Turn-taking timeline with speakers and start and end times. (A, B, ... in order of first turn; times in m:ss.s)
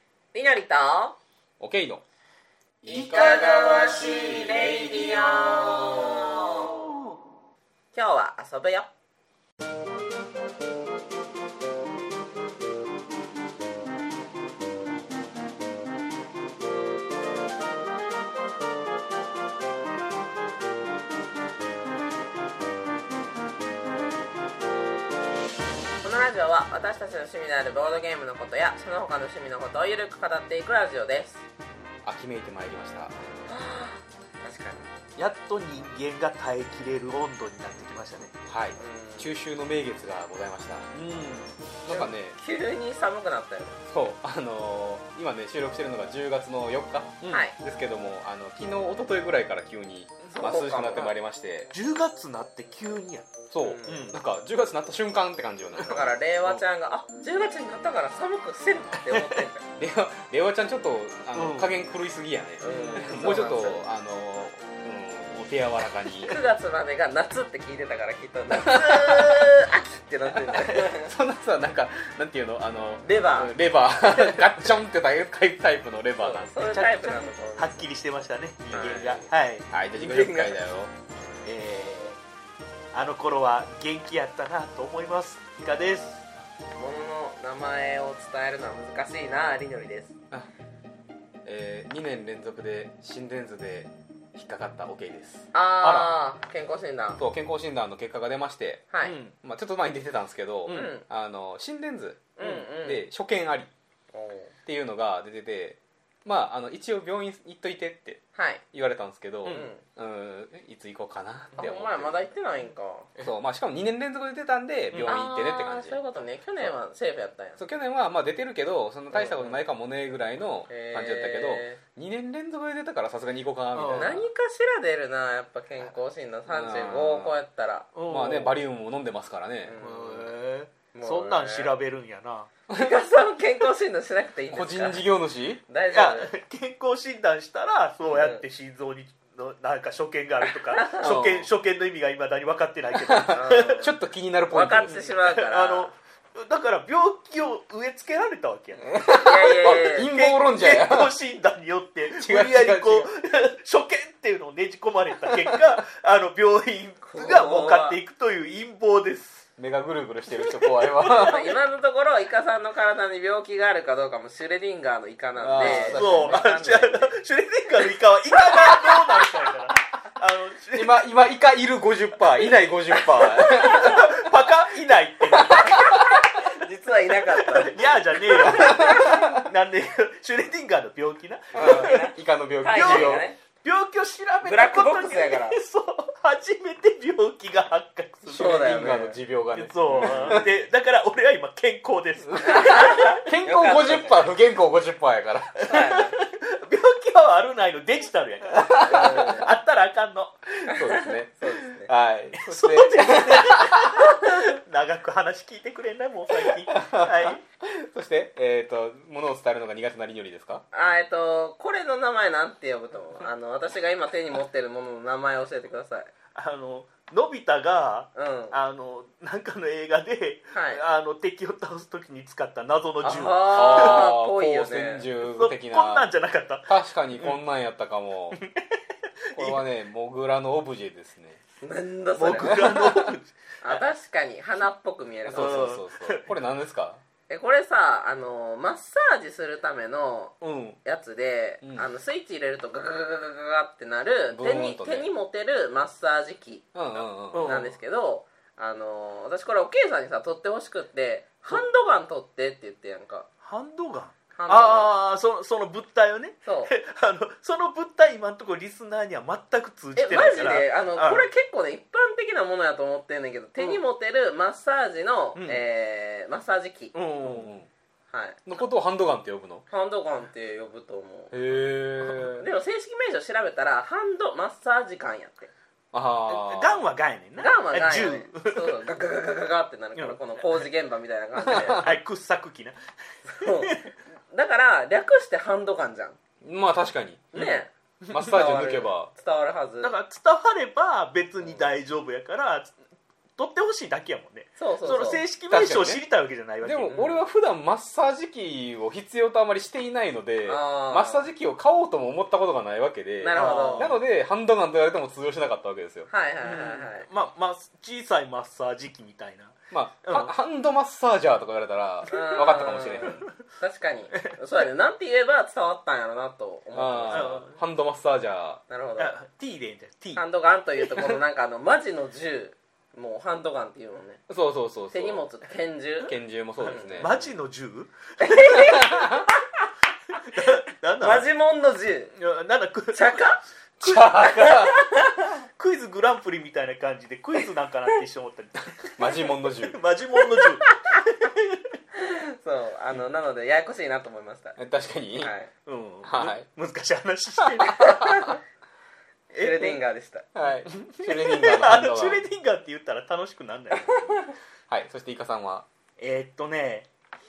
0:00.3-0:01.2 A
0:01.6-0:02.0 B
0:02.8-0:06.1 B
0:02.9-0:06.8 A
0:07.9-0:08.9 A
0:26.0-0:31.4 A
0:32.0-0:33.2 B
0:33.4-0:34.9 A
0:35.2-0:38.4 C
0:38.4-0:40.9 B
0:38.8-0:39.3 A
0:40.9-0:41.6 C
0:41.8-0:42.4 B
0:41.9-0:43.8 A
0:43.9-0:51.7 B
0:47.2-0:47.5 C
0:47.3-0:47.6 A
0:50.3-0:51.2 A
0:51.7-0:54.2 C
0:53.5-0:56.1 B
0:53.6-0:54.1 A
0:55.8-0:59.6 A
0:55.9-0:56.6 C
0:59.1-0:59.4 C
0:59.8-1:06.4 B
1:01.3-1:01.8 C
1:02.6-1:03.8 A
1:02.7-1:03.0 C
1:06.2-1:11.1 A
1:08.5-1:09.5 B
1:10.3-1:17.2 B
1:13.0-1:13.6 A
1:16.2-1:17.9 A
1:17.6-1:19.6 C
1:18.7-1:19.3 A
1:19.1-1:20.9 B
1:19.9-1:20.6 A
1:21.4-1:22.2 C
1:22.9-1:26.3 C
1:26.8-1:30.1 A
1:31.4-1:36.1 B
1:35.5-1:37.2 A
1:37.2-1:38.8 B
1:38.9-1:39.2 A
1:39.0-1:39.3 C
1:39.4-1:43.7 B
1:40.7-1:41.0 C
1:40.7-1:41.0 A
1:42.4-1:43.0 A
1:44.1-1:44.5 A
1:44.6-1:52.2 B
1:48.3-1:48.6 A
1:49.5-1:49.8 A
1:51.6-1:53.1 A
1:53.2-1:56.0 B
1:54.9-1:55.2 C
1:55.0-1:57.6 A
1:57.6-2:04.3 B
1:59.1-1:59.6 A
2:00.7-2:01.8 A
2:03.7-2:04.1 C
2:03.9-2:07.9 A
2:06.5-2:07.4 B
2:07.9-2:08.6 C
2:08.1-2:09.8 B
2:09.6-2:10.3 A
2:09.8-2:12.5 C
2:10.9-2:11.7 A
2:12.7-2:13.0 B
2:12.7-2:15.1 A
2:14.5-2:15.6 B
2:15.7-2:16.3 A
2:15.9-2:23.9 C
2:18.0-2:18.4 A
2:20.4-2:21.1 A
2:21.0-2:21.5 B
2:23.0-2:25.0 B
2:23.3-2:23.9 A
2:24.5-2:25.9 A
2:24.9-2:39.5 C
2:28.9-2:31.1 B
2:29.0-2:30.1 A
2:32.1-2:33.1 B
2:35.3-2:35.6 B
2:37.1-2:38.0 A
2:39.6-2:41.6 B
2:40.4-2:47.2 A
2:45.4-2:46.5 B
2:45.6-2:51.0 C
2:48.4-2:49.5 A
2:50.7-2:54.4 B
2:53.0-2:54.0 A
2:53.4-2:56.0 C
2:55.3-2:56.2 B
2:55.4-2:59.2 A
2:57.2-3:02.1 C
2:58.4-2:59.5 B
3:01.5-3:03.4 A
3:01.6-3:03.2 B
3:02.7-3:08.6 C
3:04.4-3:05.6 A
3:08.3-3:10.5 B
3:08.3-3:09.2 A
3:09.5-3:13.1 C
3:09.9-3:10.4 A
3:12.3-3:15.8 B
3:12.4-3:14.3 A
3:15.6-3:20.6 C
3:15.6-3:16.2 A
3:18.5-3:19.4 B
3:18.7-3:19.5 A
3:20.6-3:24.1 B
3:20.7-3:21.9 A
3:22.4-3:27.4 C
3:23.3-3:24.4 A
3:26.3-3:30.6 B
3:30.7-3:36.1 A
3:36.3-3:44.1 C
3:38.1-3:38.6 A
3:40.5-3:40.8 A
3:43.0-3:45.0 A
3:43.5-3:46.1 B
3:45.2-3:47.4 C
3:46.7-3:48.4 B
3:48.3-3:48.6 C
3:49.3-3:49.6 C
3:49.3-3:51.4 B
3:51.6-3:52.6 A
3:52.2-3:53.8 C
3:52.4-3:53.1 B
3:53.6-3:55.8 A
3:55.2-3:57.0 B
3:55.3-3:56.3 C
3:57.3-4:13.3 A
4:00.4-4:00.8 C
4:01.6-4:01.9 B
4:04.3-4:05.1 B
4:06.7-4:07.6 B
4:07.3-4:07.7 C
4:13.4-4:21.3 C
4:14.4-4:14.9 A
4:16.4-4:16.7 A
4:20.0-4:26.9 A
4:25.4-4:25.6 C
4:26.9-4:27.5 C
4:27.2-4:27.7 B
4:28.1-4:28.4 A
4:28.4-4:29.6 B
4:29.7-4:31.4 A
4:31.3-4:32.4 B
4:32.3-4:35.5 A
4:35.9-4:36.8 B
4:36.3-4:38.9 C
4:37.4-4:41.9 A
4:40.0-4:40.6 C
4:41.5-4:41.9 B
4:41.6-4:43.9 C
4:43.2-4:46.2 A
4:46.4-4:47.5 B
4:47.3-4:49.9 A
4:47.3-4:48.4 C
4:48.1-4:49.1 B
4:49.8-4:52.8 C
4:53.4-4:57.0 C
4:54.6-4:55.2 A
4:55.5-4:56.0 B
4:56.6-5:06.1 B
4:56.9-4:57.2 A
5:00.5-5:01.3 A
5:03.2-5:03.9 A
5:03.3-5:04.0 C
5:06.1-5:07.1 A
5:06.4-5:10.3 C
5:09.7-5:13.3 B
5:12.1-5:17.3 A
5:12.1-5:13.2 C
5:16.7-5:18.6 B
5:17.1-5:17.6 C
5:18.7-5:19.1 A
5:19.0-5:20.2 C
5:20.1-5:24.2 A
5:24.3-5:25.2 B
5:24.9-5:27.1 A
5:26.0-5:27.3 B
5:26.6-5:28.5 C
5:28.2-5:29.7 A
5:28.5-5:29.3 B
5:30.2-5:31.3 C
5:31.0-5:32.1 A
5:32.2-5:34.7 C
5:32.9-5:33.4 A
5:33.8-5:34.8 B
5:34.1-5:35.3 A
5:35.5-5:41.8 C
5:39.0-5:39.8 B
5:40.2-5:41.0 A
5:41.9-5:44.6 A
5:44.6-5:45.3 B
5:45.2-5:45.5 A
5:45.6-5:48.2 C
5:46.0-5:46.4 B
5:47.4-5:48.3 B
5:47.7-5:48.4 A
5:49.3-5:49.8 C
5:49.3-5:50.3 A
5:50.3-5:52.2 B
5:50.6-5:54.2 C
5:53.7-5:54.3 A
5:54.7-5:55.6 B
5:56.0-5:56.9 C